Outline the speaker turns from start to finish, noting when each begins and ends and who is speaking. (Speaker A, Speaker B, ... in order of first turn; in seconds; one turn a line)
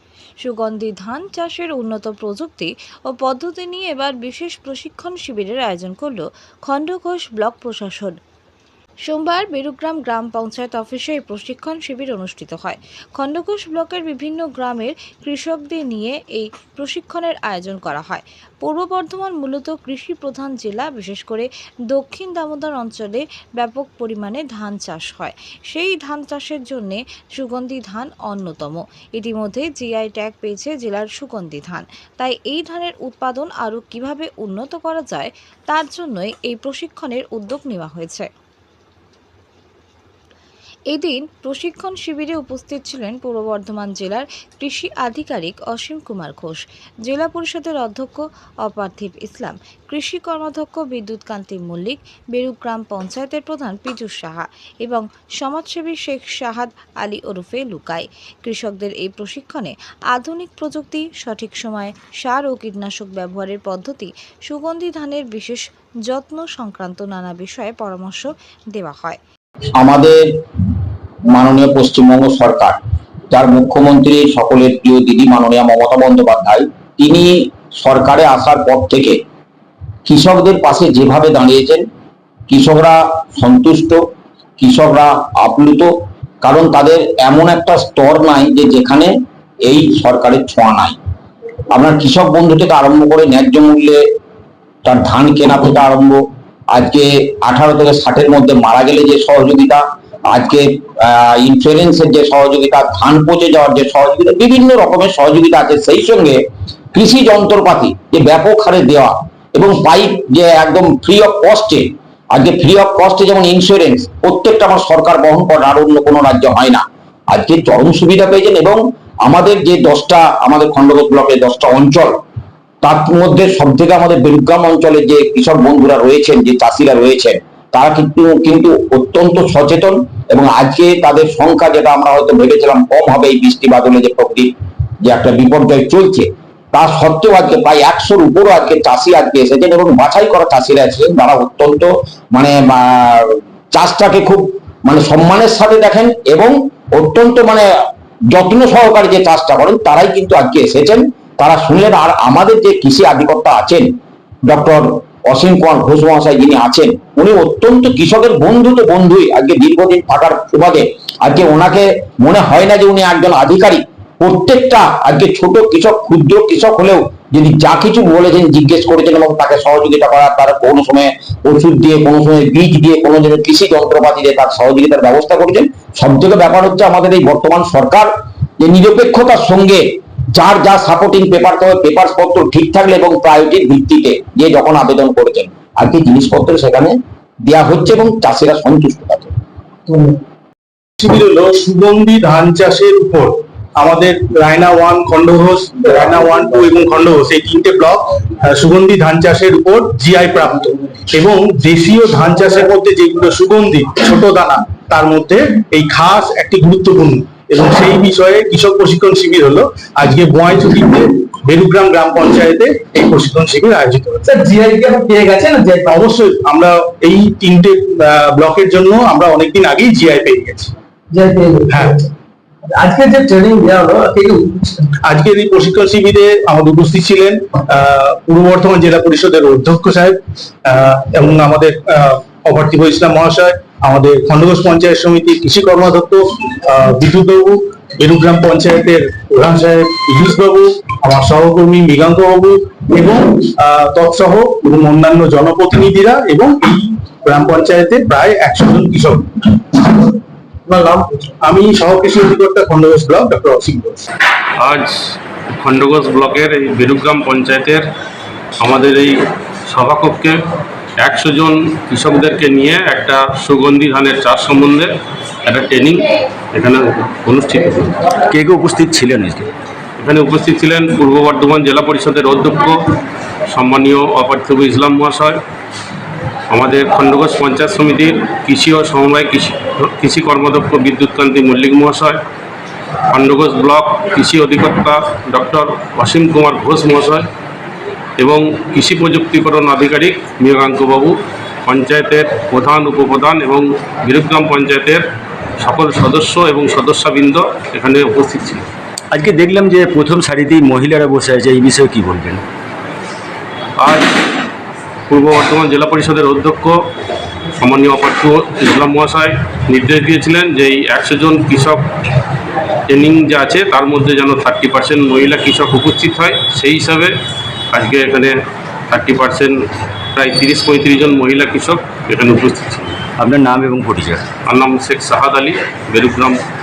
Speaker A: 0.4-8.2
Speaker A: 9.0-38.3
Speaker A: 40.9-69.2
Speaker B: 69.8-70.3
Speaker B: 71.3-72.8
Speaker B: 73.3-79.2
Speaker B: 80.0-81.8
Speaker B: 82.5-84.0
Speaker B: 84.6-85.9
Speaker B: 86.4-89.1
Speaker B: 89.7-91.0
Speaker B: 91.7-94.0
Speaker B: 94.8-106.4
Speaker B: 106.9-122.2
Speaker B: 122.8-147.7
Speaker B: 148.3-153.9
Speaker B: 154.5-189.3
Speaker C: 189.9-190.2
Speaker D: 191.0-214.3
Speaker C: 214.2-216.0
Speaker D: 215.8-220.7
Speaker C: 221.1-222.0
Speaker D: 221.7-222.0
Speaker C: 222.7-224.9
Speaker D: 225.0-250.0
Speaker C: 250.7-251.3
Speaker D: 251.4-254.0
Speaker E: 254.6-254.9
Speaker E: 255.6-257.9
Speaker E: 258.6-260.4
Speaker E: 261.0-264.9
Speaker E: 265.4-268.1
Speaker F: 268.3-269.5
Speaker E: 270.0-272.9
Speaker E: 273.5-275.4
Speaker E: 276.5-282.2
Speaker E: 283.1-287.3
Speaker E: 288.2-291.1
Speaker E: 291.6-295.0
Speaker E: 295.6-298.7
Speaker F: 299.1-302.4
Speaker E: 303.8-304.1
Speaker E: 305.1-306.8
Speaker E: 307.6-311.8
Speaker E: 312.9-317.1
Speaker E: 317.7-318.4
Speaker E: 318.9-319.6
Speaker E: 320.1-323.0
Speaker F: 323.2-324.2
Speaker E: 324.4-326.4